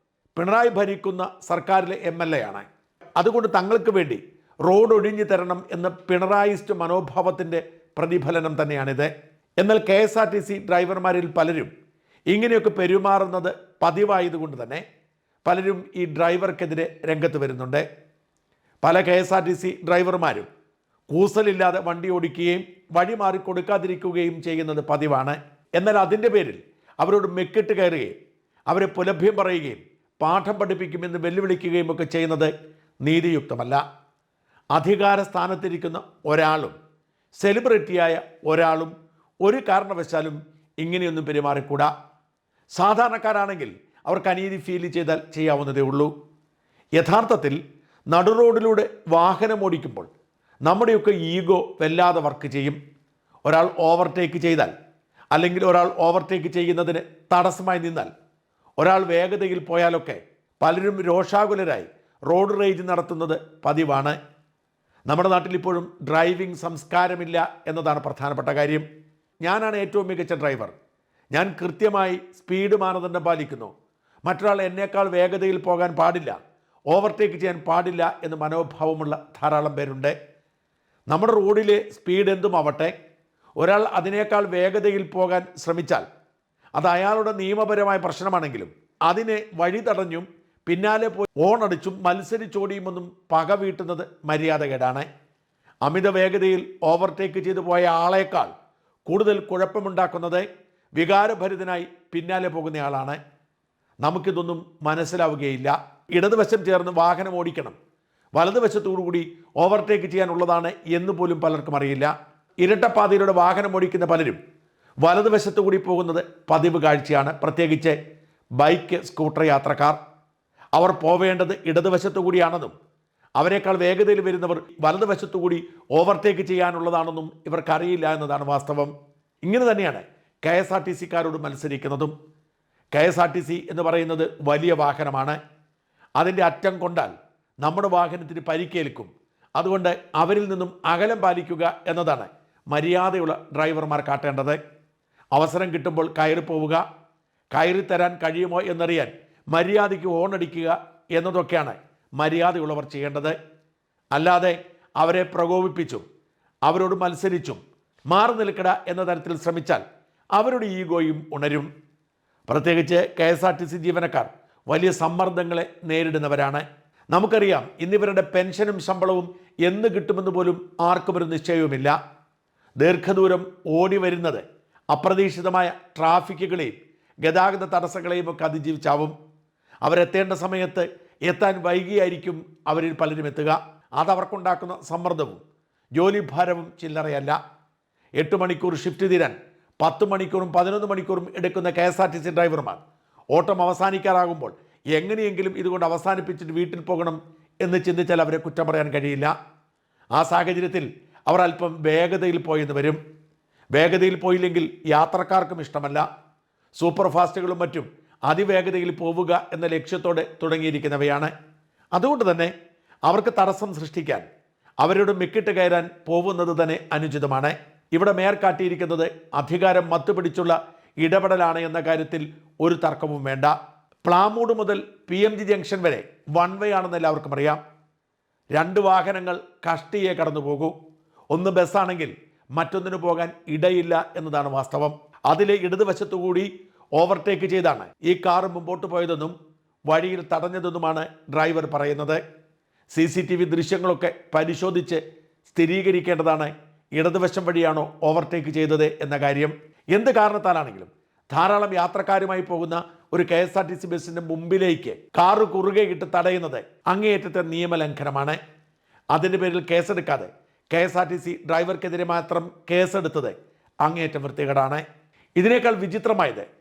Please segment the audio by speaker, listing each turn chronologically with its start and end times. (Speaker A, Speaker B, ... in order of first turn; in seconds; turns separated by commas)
Speaker A: 0.3-11.7, Speaker A: 12.3-14.8, Speaker A: 15.4-17.9, Speaker A: 18.8-20.5, Speaker A: 21.1-28.1, Speaker A: 28.7-32.5, Speaker A: 33.0-33.8, Speaker A: 34.7-36.8, Speaker A: 37.4-41.9, Speaker A: 42.8-46.1, Speaker A: 47.0-47.6, Speaker A: 48.1-50.1, Speaker A: 50.7-52.8, Speaker A: 53.5-54.7, Speaker A: 55.3-58.1, Speaker A: 58.8-64.2, Speaker A: 65.1-68.9, Speaker A: 69.4-70.7, Speaker A: 71.3-73.7, Speaker A: 74.3-76.4, Speaker A: 76.9-80.1, Speaker A: 81.1-82.9, Speaker A: 83.6-86.0, Speaker A: 86.8-95.1, Speaker A: 95.8-98.5, Speaker A: 99.1-100.5, Speaker A: 101.0-103.2, Speaker A: 104.0-107.8, Speaker A: 108.4-114.4, Speaker A: 115.0-118.0, Speaker A: 118.6-120.0, Speaker A: 120.8-122.8, Speaker A: 123.4-128.9, Speaker A: 129.4-132.1, Speaker A: 132.9-135.4, Speaker A: 136.2-144.6, Speaker A: 145.3-146.8, Speaker A: 147.5-153.4, Speaker A: 154.1-156.1, Speaker A: 156.7-159.8, Speaker A: 160.3-161.7, Speaker A: 162.5-171.9, Speaker A: 172.8-179.2, Speaker A: 179.8-185.4, Speaker A: 186.0-187.4, Speaker A: 188.2-192.8, Speaker A: 193.3-199.3, Speaker A: 200.2-203.0, Speaker A: 203.8-206.1, Speaker A: 206.8-211.3, Speaker A: 211.9-212.5, Speaker A: 213.1-214.2, Speaker A: 214.8-223.5, Speaker A: 224.1-227.6, Speaker A: 228.6-230.8, Speaker A: 231.3-239.3, Speaker A: 239.9-242.2, Speaker A: 242.9-258.4, Speaker A: 259.1-264.8, Speaker A: 265.4-266.5